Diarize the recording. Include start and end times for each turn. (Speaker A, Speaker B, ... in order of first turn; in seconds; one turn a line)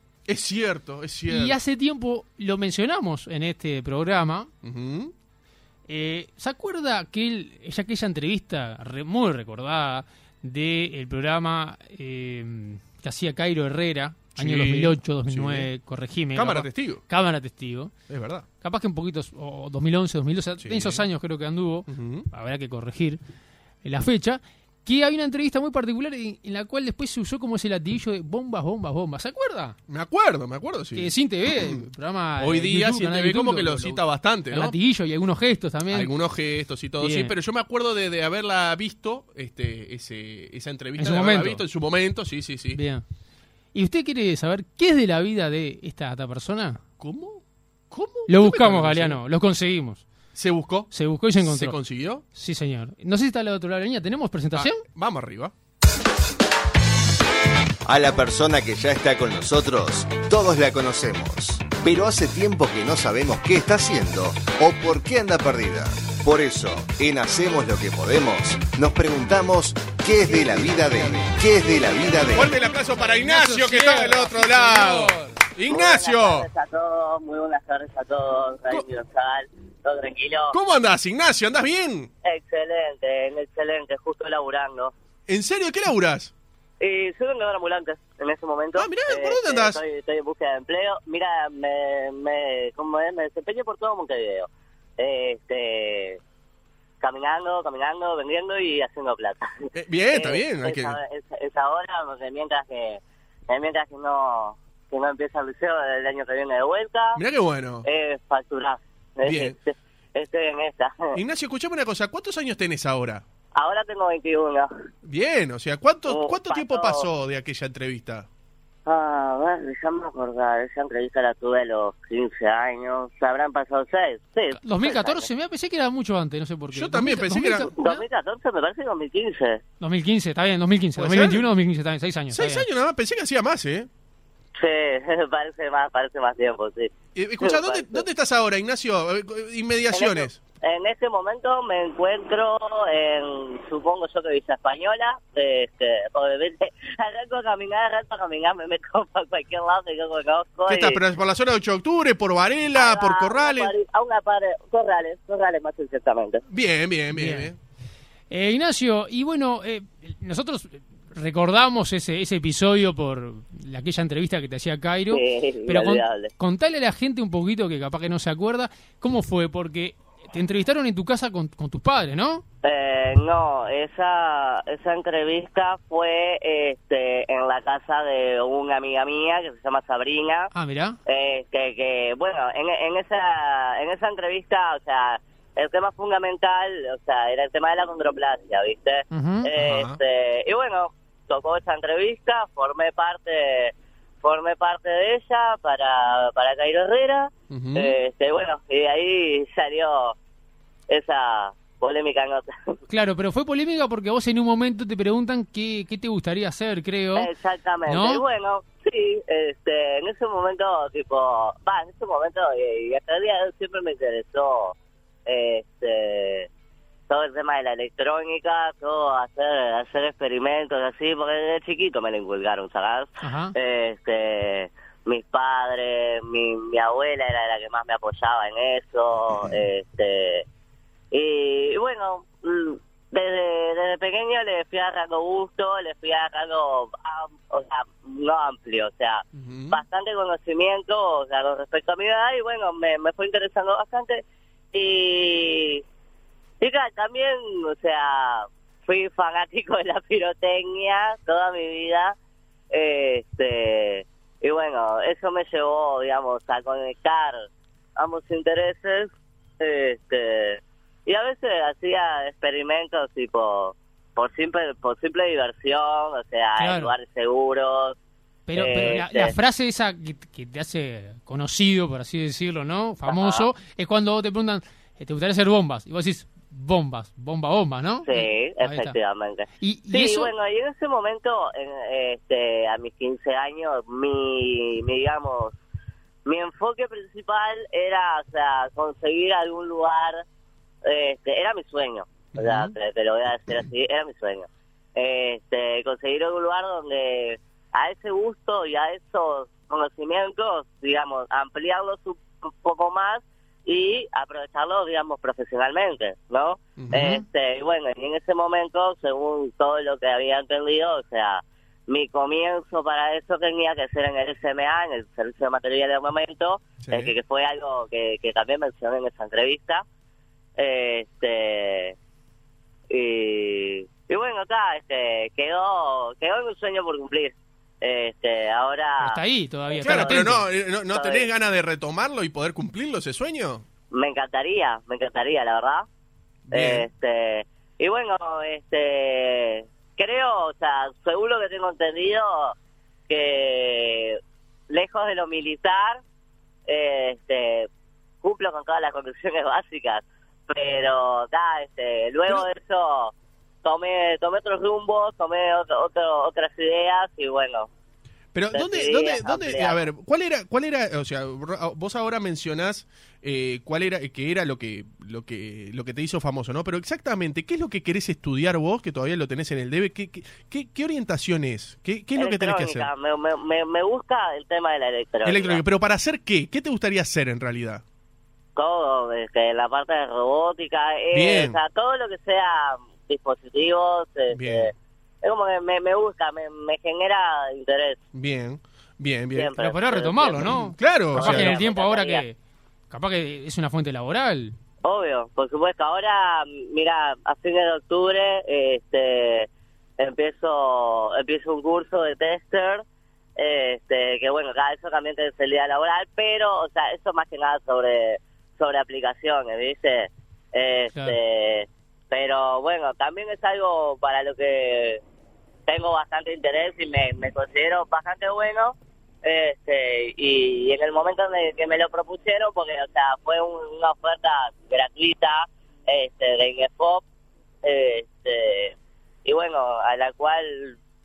Speaker A: 0.2-1.6
Speaker B: 1.3-4.5
Speaker A: 4.6-5.1
Speaker B: 5.9-17.9
Speaker A: 14.4-15.7
Speaker A: 16.3-17.0
Speaker A: 18.1-18.4
Speaker B: 18.6-23.2
Speaker A: 20.6-21.1
Speaker A: 21.9-22.3
Speaker B: 23.8-29.8
Speaker A: 29.9-31.8
Speaker B: 30.9-36.1
Speaker A: 32.4-34.8
Speaker A: 35.9-42.8
Speaker B: 37.0-37.3
Speaker B: 41.0-41.6
Speaker B: 42.7-43.0
Speaker B: 43.7-46.8
Speaker A: 47.0-49.2
Speaker B: 48.3-50.0
Speaker A: 50.3-52.2
Speaker B: 50.9-51.8
Speaker B: 52.3-54.8
Speaker A: 54.5-55.5
Speaker C: 57.9-72.5
Speaker A: 72.3-76.5
Speaker B: 72.3-75.4
Speaker D: 75.7-80.6
Speaker A: 80.5-82.1
Speaker D: 82.2-84.9
Speaker A: 85.3-86.3
Speaker D: 86.8-96.2
Speaker A: 88.8-89.8
Speaker D: 97.0-107.2
Speaker A: 99.7-101.0
Speaker A: 107.1-107.8
Speaker D: 107.8-111.2
Speaker A: 109.2-109.5
Speaker A: 111.1-113.2
Speaker D: 113.5-114.7
Speaker A: 115.0-118.3
Speaker D: 116.1-117.1
Speaker D: 118.8-125.3
Speaker B: 124.5-128.0
Speaker A: 126.7-127.7
Speaker D: 127.8-129.6
Speaker B: 129.8-132.7
Speaker A: 130.9-131.4
Speaker A: 132.3-133.9
Speaker D: 134.6-138.1
Speaker A: 137.1-140.3
Speaker D: 139.9-151.0
Speaker A: 150.7-153.7
Speaker D: 152.7-156.4
Speaker A: 156.5-157.6
Speaker B: 157.1-157.5
Speaker B: 158.3-172.4
Speaker D: 165.1-166.3
Speaker D: 172.6-180.5
Speaker B: 180.5-181.0
Speaker D: 181.1-200.1
Speaker B: 189.1-189.5
Speaker A: 189.6-190.0
Speaker A: 197.5-197.9
Speaker D: 200.9-202.8
Speaker B: 202.9-207.3
Speaker D: 207.1-214.7
Speaker B: 207.8-208.2
Speaker D: 215.2-216.5
Speaker D: 217.1-230.4
Speaker B: 223.2-223.5
Speaker D: 231.1-244.2
Speaker A: 239.3-239.8
Speaker D: 244.7-245.8
Speaker D: 246.6-252.1
Speaker D: 252.7-267.9
Speaker B: 266.6-266.9
Speaker B: 268.5-278.9
Speaker D: 268.6-269.3
Speaker D: 273.1-273.5
Speaker D: 278.0-285.6
Speaker B: 279.6-280.3
Speaker D: 286.2-290.2
Speaker D: 290.8-319.8
Speaker A: 292.4-292.7
Speaker A: 306.8-307.2
Speaker B: 306.9-307.2
Speaker A: 316.8-317.1
Speaker D: 320.6-321.9
Speaker D: 322.9-331.3
Speaker B: 329.0-330.4
Speaker A: 329.8-333.6
Speaker D: 333.9-335.9
Speaker A: 336.5-336.9
Speaker D: 336.5-342.5
Speaker D: 343.1-346.0
Speaker D: 346.7-347.7
Speaker D: 348.2-353.1
Speaker D: 353.6-357.7
Speaker A: 358.3-372.9
Speaker D: 358.5-359.9
Speaker D: 372.1-375.6
Speaker A: 375.2-377.8
Speaker D: 378.6-388.0
Speaker A: 381.1-381.6
Speaker A: 384.3-384.7
Speaker A: 388.1-389.5
Speaker D: 389.3-390.6
Speaker B: 389.6-392.4
Speaker A: 390.4-391.6
Speaker D: 391.1-392.2
Speaker B: 392.9-394.6
Speaker D: 394.8-399.5
Speaker D: 400.0-402.8
Speaker D: 403.4-415.0
Speaker B: 410.9-411.2
Speaker D: 415.7-427.0
Speaker D: 427.6-430.8